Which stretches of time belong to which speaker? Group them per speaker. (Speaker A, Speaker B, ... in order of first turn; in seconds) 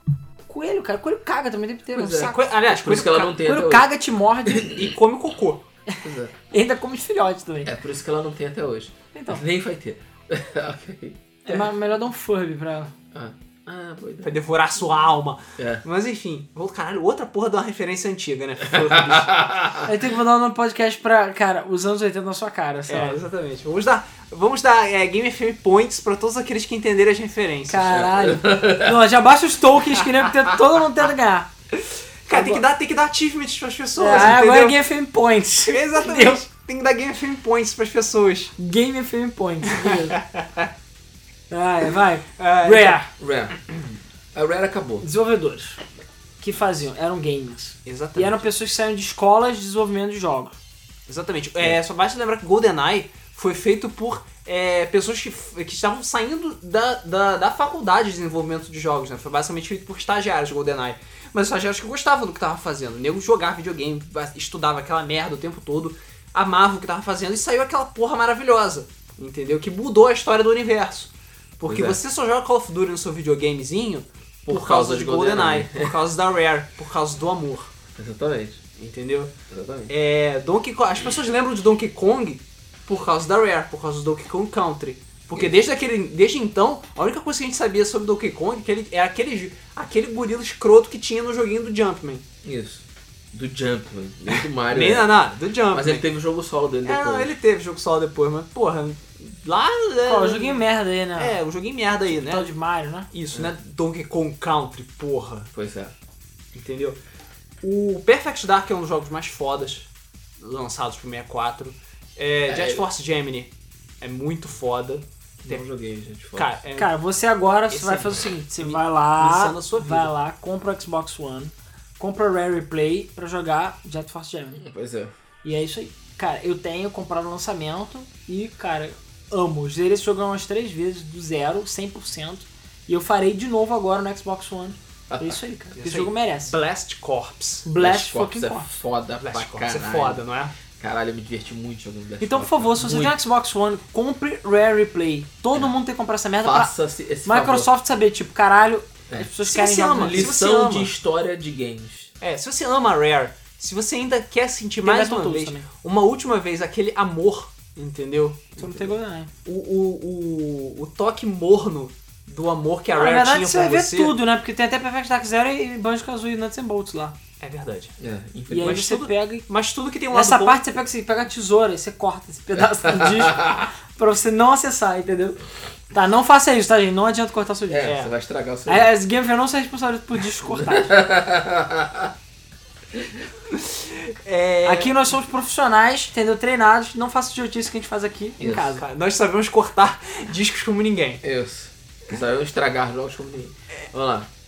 Speaker A: 0.5-2.4, 3.3-4.7, 5.9-7.7, 9.1-9.4, 11.4-12.9, 19.8-23.2, 27.7-31.5, 32.3-32.6, 34.0-36.4, 38.6-40.2, 41.5-43.1, 45.0-45.8, 46.4-50.5, 100.0-101.4, 102.1-103.1, 116.8-124.6, 125.4-136.5, 137.6-138.7, 142.2-146.7, 147.2-150.3, 154.8-155.7, 158.6-159.3, 162.9-167.2, 168.5-169.5, 170.1-175.4, 175.9-177.9, 178.7-181.0, 184.6-188.8
Speaker B: 1.9-3.9, 4.5-4.8, 6.0-6.3, 7.6-11.7, 13.1-14.3, 15.6-15.8, 18.7-19.9, 27.9-29.0, 43.2-43.7, 44.3-45.0, 71.7-72.0, 74.4-75.9, 78.0-78.6, 79.5-79.9, 92.4-95.1, 95.7-97.3, 105.5-105.9, 112.5-112.8, 115.4-116.6, 124.6-125.1, 135.1-135.4, 137.8-140.2, 140.7-143.2, 146.4-147.7, 149.9-152.1, 168.0-168.8, 172.8-173.7, 177.7-178.9, 180.5-182.1, 188.4-188.8, 191.2-194.3
Speaker C: 2.0-3.4, 4.6-5.6, 14.2-19.3, 22.9-27.9, 31.7-34.8, 35.6-38.5, 39.7-40.7, 42.4-43.0, 47.9-48.4, 51.1-77.7, 78.8-79.3, 79.9-92.2, 94.7-96.0, 96.8-100.6, 101.2-102.5, 103.1-105.5, 106.5-107.0, 107.6-109.9, 110.4-115.6, 116.3-116.9, 117.7-120.1, 135.8-137.7, 139.2-140.5, 149.4-150.9, 152.2-158.9, 159.4-164.1, 167.4-167.9, 168.6-170.6, 177.8-178.1, 183.5-184.9, 188.8-191.2